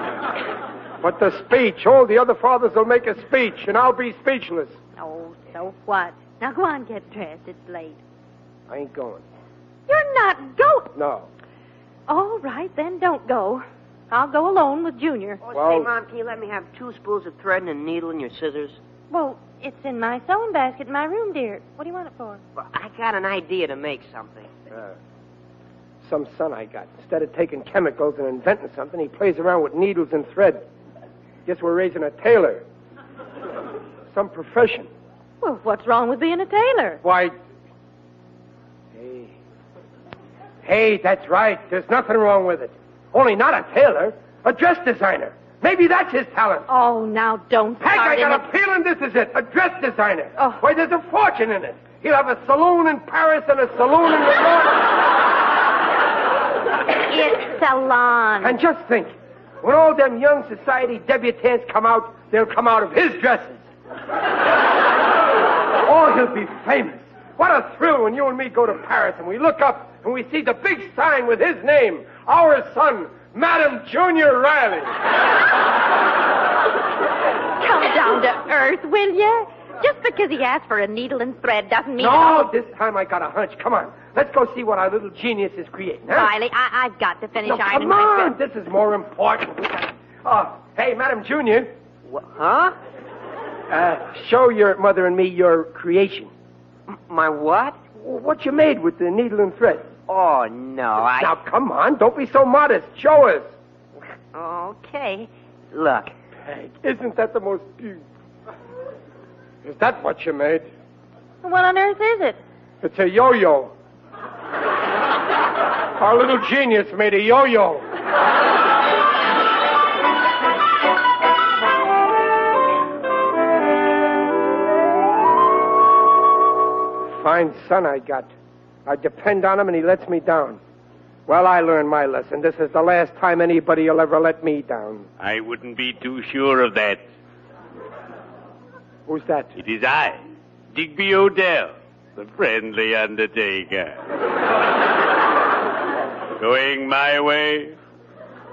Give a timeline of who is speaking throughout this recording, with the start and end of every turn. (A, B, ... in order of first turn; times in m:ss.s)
0:01.0-0:04.7 A
0:05.0-0:08.0 B
0:08.7-0:09.2 A
0:09.9-0:10.9 B
0:10.9-0:11.3 A
0:12.1-0:15.4 B
0:15.4-0:18.8 C
0:15.5-0:15.9 A
0:19.1-0:22.4 B
0:22.6-0:24.5 C
0:26.0-0:30.6 A
0:31.4-0:32.6 A
0:34.1-0:34.9 A
0:35.4-0:37.0 B
0:37.0-0:37.3 A
0:38.9-0:39.3 A
0:40.6-0:46.7 A
0:46.7-0:48.4 B
0:47.8-0:54.9 A
0:57.1-0:58.6 B
0:58.4-1:03.6 A
1:05.8-1:14.9 A
1:17.6-1:22.5 B
1:22.0-1:26.3 A
1:26.1-1:28.3 B
1:27.4-1:31.7 A
1:32.1-1:32.7 C
1:33.7-1:36.3 A
1:36.9-1:37.8 C
1:38.0-1:39.9 A
1:40.1-1:41.3 C
1:41.2-1:43.5 A
1:44.3-1:46.1 C
1:46.4-1:48.0 A
1:49.6-1:50.7 A
1:51.4-1:52.4 B
1:52.8-1:53.7 A
1:56.0-1:57.8 A
2:07.1-2:08.3 A
2:08.8-2:10.6 A
2:11.3-2:15.1 A
2:15.2-2:17.0 D
2:19.1-2:19.5 A
2:19.6-2:20.2 D
2:20.7-2:24.0 D
2:26.4-2:27.8 D